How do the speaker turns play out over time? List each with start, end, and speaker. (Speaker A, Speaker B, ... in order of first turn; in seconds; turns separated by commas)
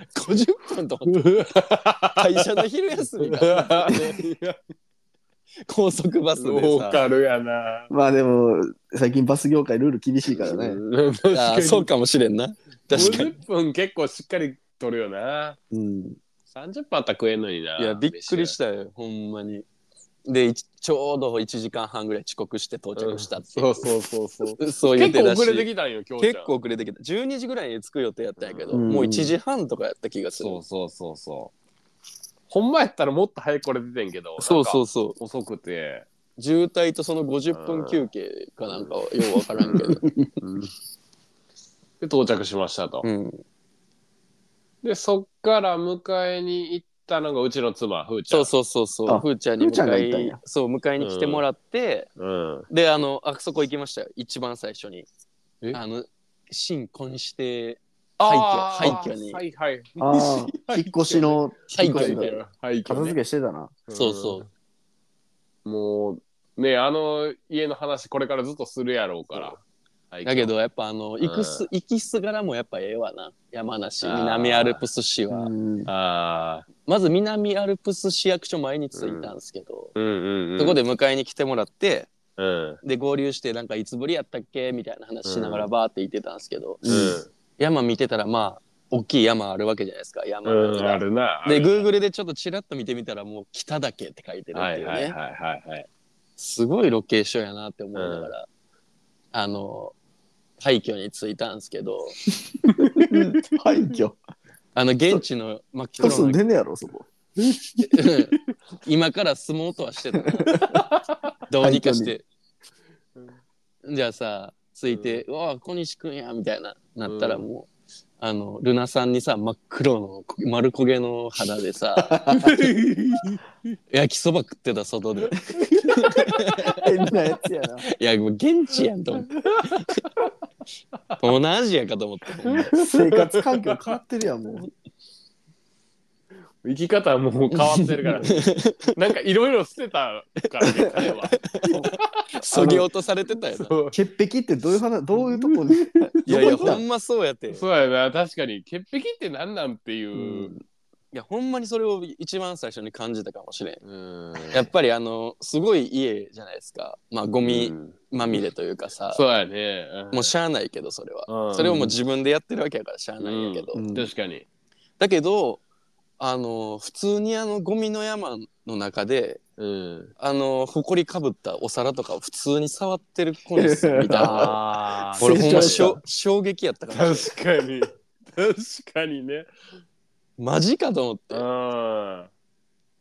Speaker A: 0.1-1.2, Speaker B: 1.1-2.6, Speaker A: 2.2-4.1, Speaker B: 3.2-4.6, Speaker A: 5.6-7.0, Speaker B: 6.3-7.9, Speaker C: 7.9-10.8, Speaker B: 10.3-11.9, Speaker A: 11.3-13.4, Speaker B: 12.9-15.6, Speaker C: 15.7-16.2, Speaker B: 16.5-18.6, Speaker A: 17.8-19.6, Speaker A: 20.2-23.9, Speaker B: 22.9-26.5, Speaker A: 24.6-25.7, Speaker A: 26.2-30.6, Speaker B: 28.4-28.9, Speaker C: 28.7-29.3, Speaker B: 30.4-31.5, Speaker B: 32.5-36.0, Speaker A: 34.4-35.2, Speaker A: 36.4-40.1, Speaker B: 37.5-38.0, Speaker B: 38.7-38.9, Speaker B: 39.6-40.7, Speaker B: 42.0-43.0, Speaker A: 43.0-43.4, Speaker B: 44.8-48.5, Speaker A: 48.3-52.1, Speaker C: 49.1-50.4, Speaker B: 51.0-51.4, Speaker B: 52.2-52.7, Speaker A: 52.7-55.1, Speaker A: 55.7-59.4, Speaker B: 58.2-63.2, Speaker C: 60.0-63.8, Speaker A: 61.7-62.4, Speaker B: 63.9-64.5, Speaker A: 63.9-64.5, Speaker B: 65.6-69.6, Speaker B: 70.1-70.5, Speaker A: 70.2-75.5, Speaker B: 71.2-71.7, Speaker B: 74.0-74.8, Speaker C: 75.3-75.9, Speaker B: 75.9-76.7, Speaker A: 76.8-79.9, Speaker B: 78.9-79.3, Speaker B: 80.0-80.8, Speaker A: 80.6-82.1, Speaker B: 82.4-82.8, Speaker A: 82.8-95.1, Speaker B: 85.2-85.7, Speaker C: 86.8-87.2, Speaker B: 86.8-87.3, Speaker B: 90.4-91.8, Speaker B: 94.5-95.9, Speaker A: 96.4-98.5, Speaker B: 97.9-98.3, Speaker A: 99.3-99.9, Speaker A: 100.6-102.2, Speaker B: 102.7-103.4, Speaker C: 102.9-104.2, Speaker A: 104.7-106.4, Speaker C: 106.0-107.1, Speaker A: 107.8-110.6, Speaker B: 110.5-111.3, Speaker A: 111.5-112.2, Speaker C: 111.6-112.1, Speaker A: 113.8-117.7, Speaker B: 114.9-115.2, Speaker B: 117.0-117.5, Speaker A: 118.2-122.3, Speaker C: 122.1-122.4, Speaker B: 122.3-123.4, Speaker A: 123.9-126.8, Speaker B: 125.4-126.4, Speaker C: 126.7-127.9, Speaker A: 127.9-130.1, Speaker B: 129.4-129.9, Speaker A: 131.2-132.7, Speaker B: 132.5-134.0, Speaker C: 132.7-134.7, Speaker B: 136.6-141.4, Speaker A: 137.7-138.9, Speaker A: 140.9-141.9, Speaker C: 141.6-141.9, Speaker B: 142.2-142.8, Speaker A: 142.4-143.7, Speaker C: 142.5-142.8, Speaker B: 143.5-143.9, Speaker C: 143.9-146.8, Speaker B: 145.1-145.6, Speaker B: 146.1-146.8, Speaker A: 146.3-147.6, Speaker B: 147.5-150.5, Speaker C: 150.2-150.6, Speaker A: 151.1-153.8, Speaker B: 153.8-154.7, Speaker A: 154.5-159.2, Speaker B: 157.4-158.4, Speaker B: 159.1-160.3, Speaker A: 160.1-163.8, Speaker B: 161.3-161.9, Speaker C: 161.6-161.9, Speaker B: 163.2-164.4, Speaker C: 163.7-164.1, Speaker A: 165.0-165.6, Speaker A: 166.2-169.4, Speaker B: 169.6-170.1, Speaker A: 170.2-174.6, Speaker C: 173.6-174.6, Speaker B: 174.2-175.9, Speaker A: 175.2-177.3, Speaker C: 175.2-176.0, Speaker B: 176.9-179.5, Speaker A: 180.4-181.4, Speaker B: 181.3-182.3